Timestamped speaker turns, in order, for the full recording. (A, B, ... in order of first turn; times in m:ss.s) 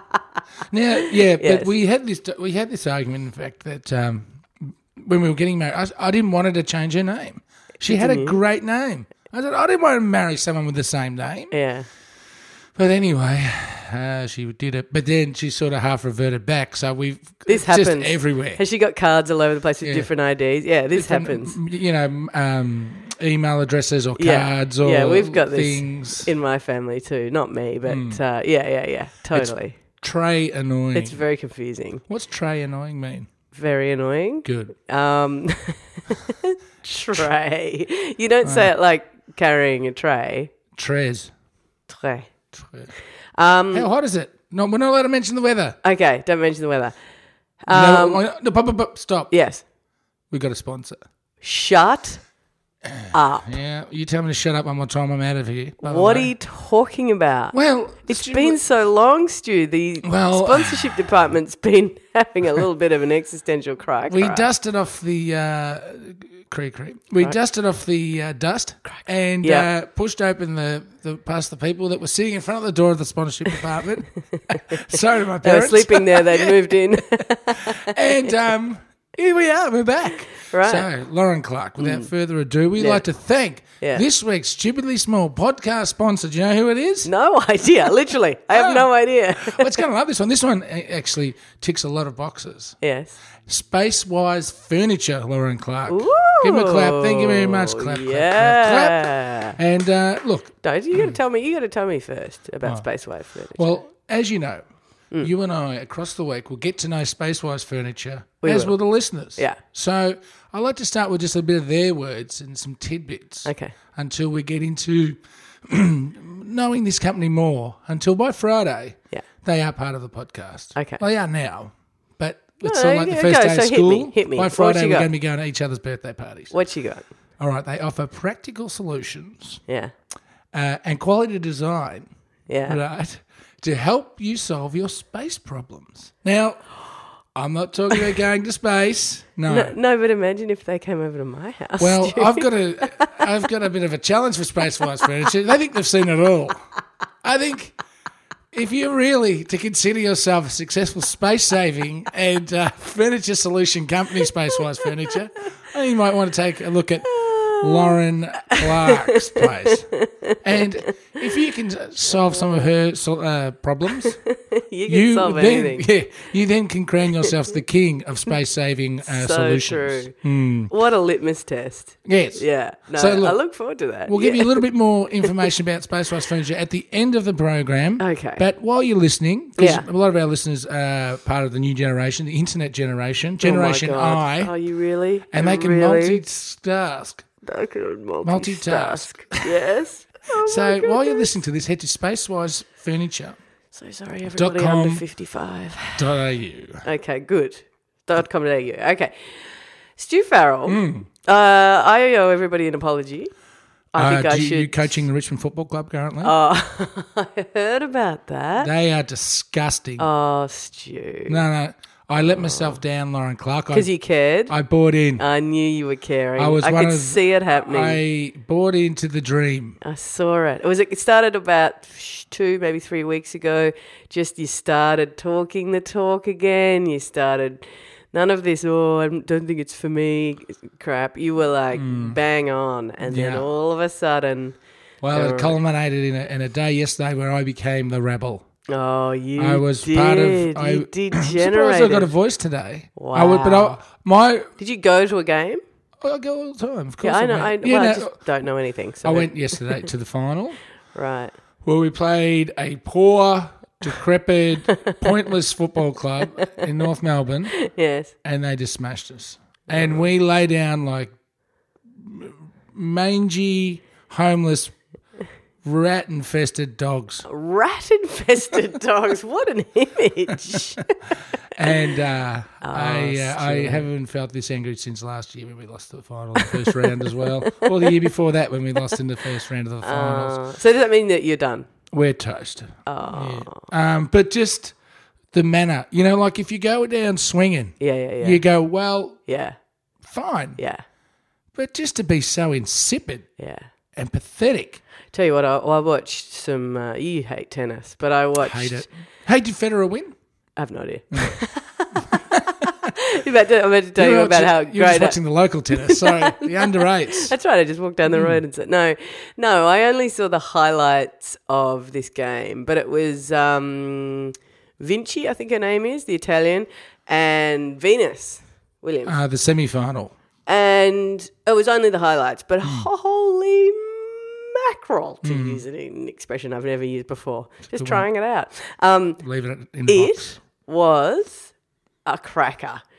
0:00.7-0:11.5 A
0:01.0-0:01.7 B
0:07.8-0:08.4 B
0:11.5-0:11.9 B
0:12.8-0:18.6 A
0:17.5-0:21.5 B
0:19.8-0:20.1 A
0:20.9-0:26.3 A
0:24.2-0:29.8 B
0:27.8-0:28.2 A
0:29.3-0:31.2 A
0:30.9-0:32.0 B
0:32.1-0:33.3 A
0:33.5-0:40.5 B
0:34.4-0:34.7 A
0:38.4-0:38.7 A
0:40.7-0:41.3 A
0:41.9-0:42.3 B
0:42.5-0:42.9 A
0:43.4-0:43.9 B
0:43.7-0:45.8 A
0:45.8-0:47.0 B
0:47.6-0:48.2 B
0:47.7-0:49.3 A
0:49.3-0:49.6 B
0:50.3-0:51.0 A
0:51.4-0:52.2 B
0:52.8-0:56.3 A
0:53.1-0:53.5 B
0:55.8-1:04.5 B
0:57.5-0:58.6 A
1:00.0-1:01.1 A
1:04.1-1:14.1 A
1:08.9-1:09.7 B
1:14.3-1:17.9 B
1:14.7-1:16.6 A
1:17.5-1:27.1 A
1:20.5-1:20.8 B
1:21.8-1:22.1 B
1:22.8-1:23.0 B
1:27.0-1:29.8 B
1:28.5-1:32.8 A
1:32.8-1:33.2 B
1:33.4-1:41.1 A
1:35.9-1:39.6 B
1:40.6-1:43.8 B
1:43.5-1:44.6 A
1:45.2-2:06.5 A
1:48.4-1:49.6 B
1:53.4-1:53.7 B
2:00.7-2:01.0 B
2:02.6-2:05.1 B
2:06.5-2:07.0 B
2:07.4-2:09.6 A
2:09.7-2:09.9 B
2:10.5-2:12.1 A
2:12.5-2:12.8 B
2:12.7-2:16.7 A
2:17.3-2:19.7 A
2:19.5-2:23.2 B
2:21.8-2:26.6 A
2:27.2-2:27.8 A
2:28.5-2:39.9 A
2:37.1-2:38.0 B
2:38.5-2:41.2 B
2:40.4-2:44.2 A
2:42.2-2:42.7 B
2:44.0-2:45.9 B
2:44.9-2:50.7 A
2:49.0-2:50.1 B
2:50.7-2:54.6 B
2:52.0-2:52.4 A
2:53.0-2:53.4 A
2:54.1-3:04.5 A
2:55.2-2:55.5 B
2:58.0-2:58.4 B
2:59.6-2:59.8 B
3:03.4-3:06.2 B
3:05.3-3:07.2 A
3:07.4-3:11.3 B
3:08.2-3:09.6 A
3:10.4-3:13.4 A
3:13.7-3:16.0 B
3:14.3-3:15.0 A
3:16.0-3:16.8 A
3:16.8-3:19.3 B
3:20.0-3:23.3 B
3:20.7-3:21.1 A
3:23.9-3:25.0 B
3:23.9-3:26.3 A
3:26.2-3:28.7 B
3:28.6-3:30.0 A
3:30.0-3:31.4 B
3:31.3-3:33.9 A
3:32.2-3:32.8 B
3:33.7-3:34.5 B
3:34.5-3:35.2 A
3:35.2-3:38.0 B
3:36.4-3:39.8 A
3:39.8-3:54.6 B
3:51.7-3:52.2 A
3:53.0-3:53.5 A
3:55.0-3:58.4 A
3:55.1-3:55.6 B
3:58.7-4:02.1 B
3:59.4-4:04.5 A
4:03.0-4:03.8 B
4:04.6-4:05.6 B
4:06.0-4:08.2 A
4:07.0-4:09.9 B
4:09.0-4:10.6 A
4:10.9-4:11.3 B
4:11.6-4:17.5 A
4:16.2-4:16.6 B
4:17.5-4:18.1 B
4:18.2-4:21.1 A
4:19.7-4:20.1 B
4:22.0-4:24.8 A
4:25.6-4:27.2 A
4:27.2-4:30.9 B
4:31.6-4:40.4 A
4:32.6-4:33.9 B
4:36.4-4:38.1 B
4:39.8-4:41.7 B
4:41.9-4:44.7 A
4:42.8-4:43.7 B
4:45.3-4:49.2 A
4:47.8-4:48.4 B
4:49.3-4:49.6 B
4:50.0-4:50.6 A
4:51.5-4:53.3 A
4:53.4-4:53.7 B
4:54.0-4:54.8 A
4:55.1-4:58.9 B
4:58.4-5:00.1 A
5:00.6-5:02.2 B
5:02.1-5:02.6 A
5:02.8-5:05.2 B
5:04.0-5:07.3 A
5:05.7-5:19.2 B
5:08.1-5:08.4 A
5:19.0-5:20.1 A
5:20.4-5:29.2 B
5:25.2-5:25.6 A
5:27.7-5:28.1 A
5:29.2-5:30.4 A
5:29.8-5:31.5 B
5:32.0-5:32.8 B